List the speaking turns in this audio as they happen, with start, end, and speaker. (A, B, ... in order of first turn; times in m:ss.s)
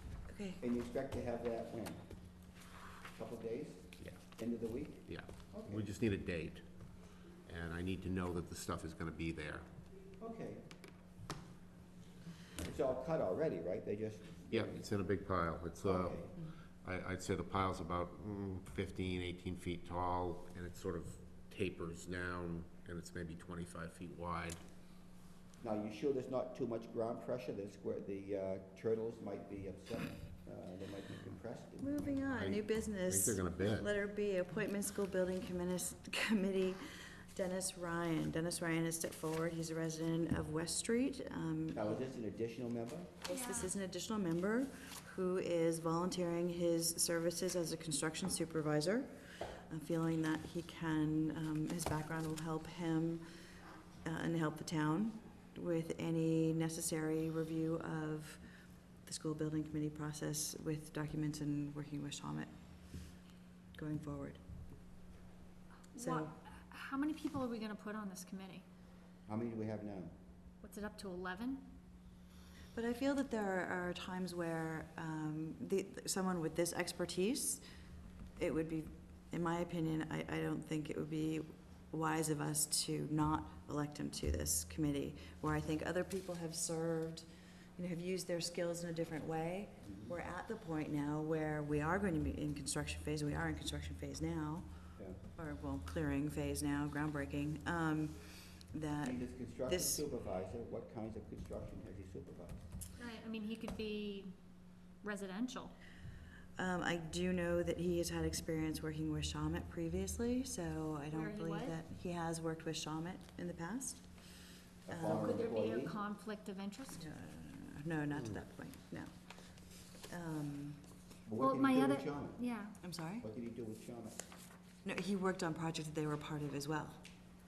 0:00.3-0:00.6 A
0:00.6-0:02.4 B
0:03.1-0:05.8 B
0:05.0-0:09.7 C
0:10.2-0:10.7 B
0:12.6-0:14.7 B
0:14.5-0:24.6 C
0:15.8-0:16.3 B
0:25.6-0:32.4 B
0:31.8-0:42.0 A
0:32.3-0:33.9 C
0:41.7-0:43.1 B
0:43.2-0:53.2 A
0:43.3-0:43.7 D
0:54.0-1:03.2 A
1:03.7-1:04.4 A
1:05.9-1:08.6 D
1:05.9-1:06.3 A
1:09.3-1:10.1 B
1:10.6-1:11.6 D
1:12.7-1:17.6 A
1:18.4-1:40.0 A
1:29.8-1:30.1 B
1:39.0-1:42.6 B
1:43.0-1:44.3 D
1:45.0-1:45.7 D
1:46.5-1:55.4 A
1:51.1-1:51.8 D
1:54.9-1:55.9 B
1:55.2-1:57.1 D
1:56.9-2:00.8 A
2:01.2-2:02.4 B
2:01.4-2:02.8 D
2:02.8-2:03.3 A
2:03.2-2:04.2 B
2:04.8-2:07.0 A